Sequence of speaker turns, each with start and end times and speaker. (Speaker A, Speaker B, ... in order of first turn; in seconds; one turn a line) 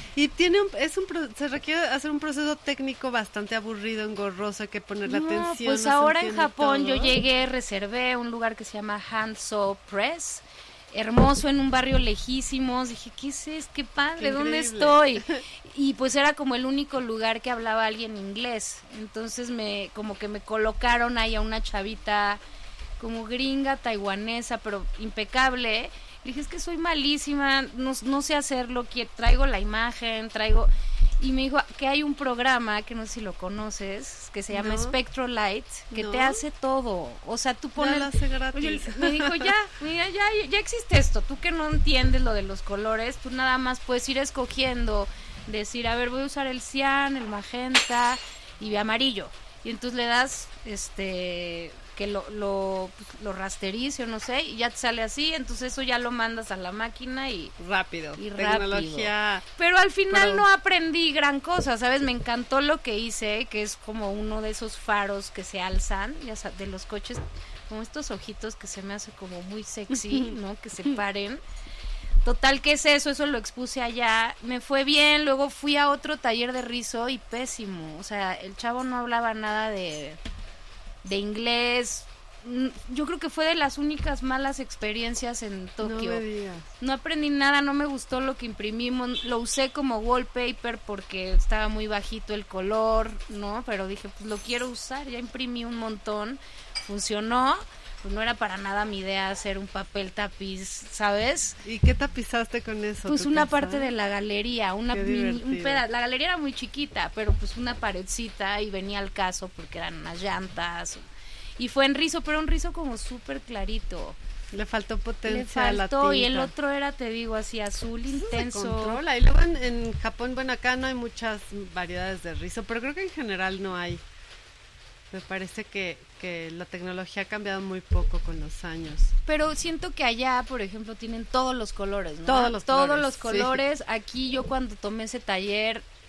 Speaker A: 0.2-7.2
Speaker B: 5.1-22.4
Speaker A: 14.2-15.4
Speaker B: 23.0-57.6
Speaker A: 34.5-35.0
Speaker A: 35.9-36.4
Speaker A: 37.8-39.5
Speaker A: 57.6-59.5
Speaker B: 58.2-71.4
Speaker A: 60.1-60.5
Speaker A: 70.0-70.3
Speaker B: 72.2-80.2
Speaker B: 81.0-86.2
Speaker A: 85.8-86.7
Speaker B: 86.8-101.6
Speaker A: 101.7-103.9
Speaker B: 103.1-111.1
Speaker A: 104.9-105.8
Speaker B: 111.6-114.2
Speaker A: 114.5-116.5
Speaker B: 115.3-119.0
Speaker A: 118.1-124.0
Speaker A: 125.1-129.1
Speaker B: 129.3-135.8
Speaker A: 132.3-133.6